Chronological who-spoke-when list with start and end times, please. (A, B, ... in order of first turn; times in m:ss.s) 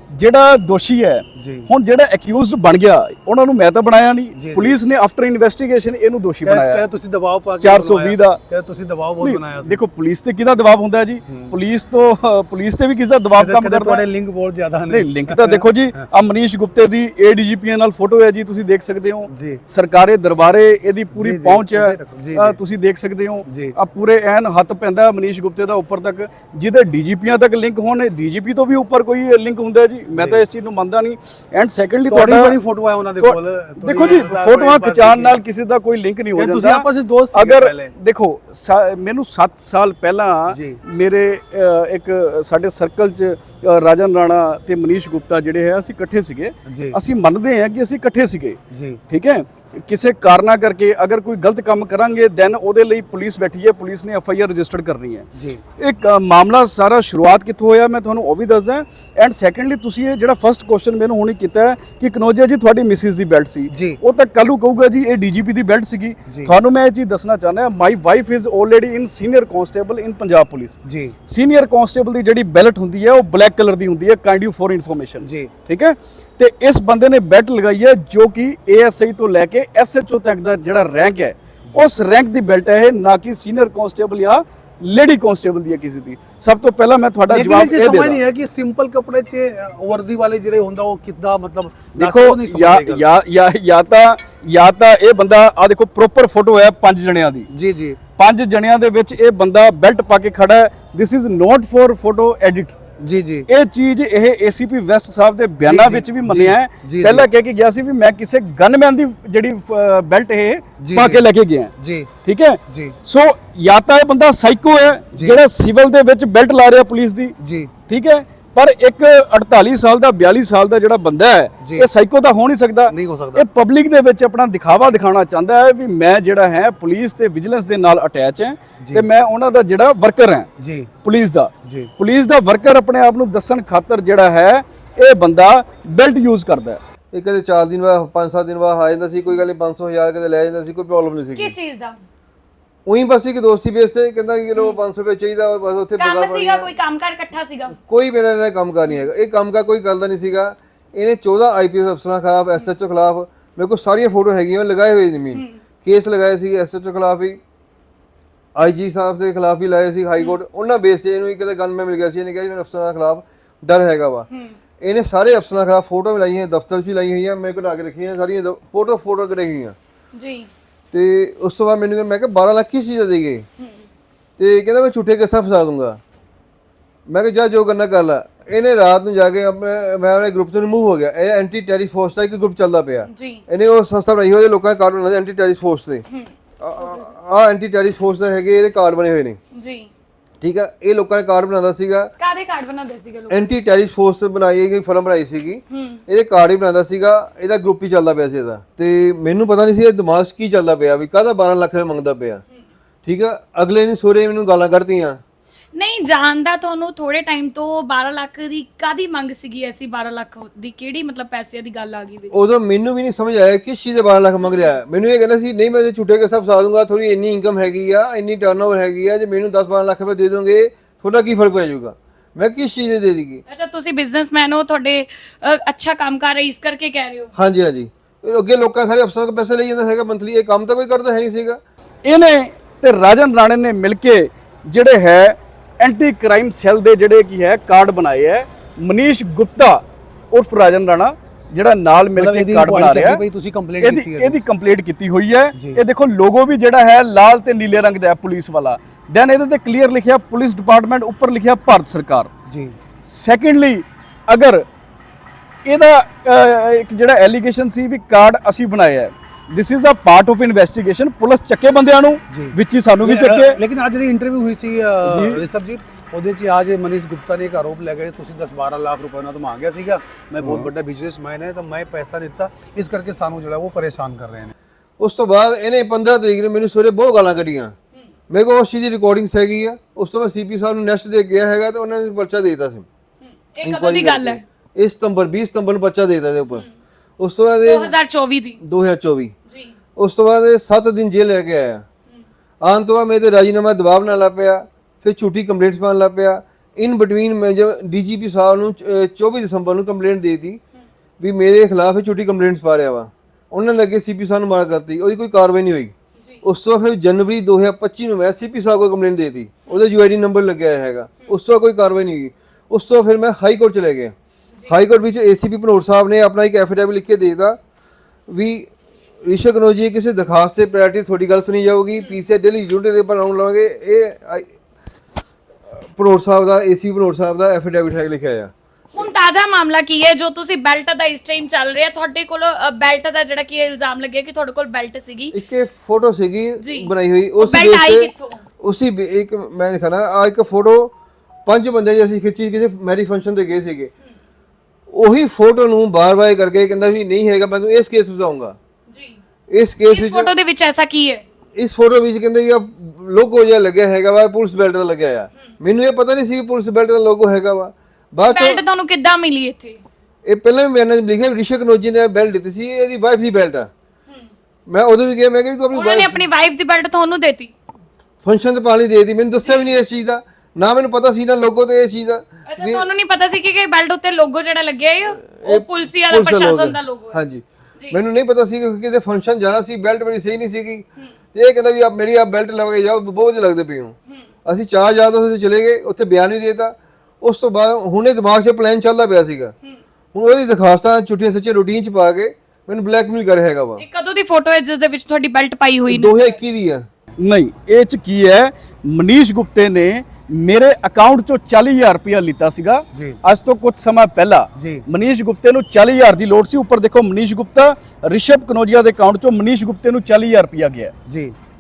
0:00.1-0:06.8 A
0:01.4-0:01.7 B
0:04.4-0:04.8 B
0:06.5-0:09.8 B
0:07.6-0:08.4 A
0:09.2-0:14.0 A
0:11.3-0:11.6 B
0:13.4-0:16.0 B
0:14.9-0:32.6 A
0:19.3-0:19.6 B
0:21.2-0:22.6 B
0:23.5-0:23.8 B
0:30.2-0:30.4 B
0:32.1-0:35.4 B
0:33.2-1:28.2 A
0:36.4-0:37.9 B
0:40.5-0:40.8 B
0:46.7-0:47.0 B
0:48.7-0:49.0 B
0:55.4-0:55.6 B
1:03.7-1:04.0 B
1:10.8-1:11.2 B
1:15.2-1:15.5 B
1:27.3-1:33.0 B
1:32.0-1:37.5 A
1:37.5-1:38.0 B
1:38.2-1:42.8 A
1:43.0-1:43.5 B
1:43.5-1:51.7 A
1:45.6-1:47.3 B
1:50.8-1:51.2 B
1:51.8-1:52.1 B
1:52.2-1:57.4 A
1:52.7-1:53.0 B
1:57.4-1:57.7 B
1:57.9-2:10.5 A
2:02.9-2:03.4 B
2:08.8-2:09.0 B
2:10.6-2:10.9 B
2:11.0-2:16.8 A
2:11.6-2:11.9 B
2:17.1-2:21.5 C
2:21.4-2:22.0 D
2:22.9-2:26.7 C
2:26.0-2:27.8 D
2:27.8-2:37.4 C
2:38.6-2:44.3 C
2:44.8-2:49.8 C
2:50.1-2:50.5 D
2:50.9-2:53.4 C
2:54.4-2:56.0 C
2:57.1-3:06.0 C
3:03.1-3:03.4 D
3:06.1-3:07.0 D
3:06.6-3:09.4 C
3:09.5-3:09.9 D
3:10.4-3:12.1 C
3:12.2-3:13.4 D
3:13.3-3:22.4 C
3:15.7-3:16.0 D
3:23.0-3:25.2 C
3:25.8-3:32.3 D
3:32.3-3:43.4 C
3:43.5-3:47.3 D
3:47.4-3:51.6 C
3:52.1-4:03.2 A
4:02.2-4:04.4 B
4:03.8-4:12.3 A
4:12.5-4:12.8 B
4:13.0-4:14.6 A
4:15.7-4:23.6 A
4:22.3-4:34.5 B
4:25.1-4:25.4 A
4:30.4-4:30.7 C
4:35.0-4:37.7 C
4:38.3-4:42.9 C
4:43.2-4:44.4 D
4:43.6-4:46.6 C
4:47.2-4:47.9 C
4:47.6-4:48.6 D
4:48.6-4:49.3 C
4:49.5-4:49.7 D
4:50.0-4:51.8 C
4:52.6-5:00.6 C
5:01.2-5:14.1 C
5:14.7-5:17.6 C
5:18.3-5:18.7 C
5:19.2-5:24.5 C
5:25.7-5:29.1 C
5:28.9-5:35.4 D
5:35.3-5:40.9 C
5:36.6-5:38.4 D
5:41.5-5:43.9 C
5:44.9-5:48.6 C
5:48.9-5:49.2 D
5:49.5-5:50.3 C
5:49.9-5:51.2 D
5:51.6-5:58.6 C
5:58.2-5:59.8 D
6:00.3-6:03.7 C
6:04.7-6:06.2 C
6:05.7-6:07.5 D
6:08.2-6:12.8 C
6:12.5-6:17.2 D
6:15.3-6:23.9 C
6:24.4-6:29.5 C
6:30.1-6:33.8 C
6:33.8-6:36.1 D
6:35.9-6:36.9 C
6:37.2-6:50.9 A
6:42.9-6:43.2 B
6:44.6-6:44.8 B
6:51.1-6:51.3 B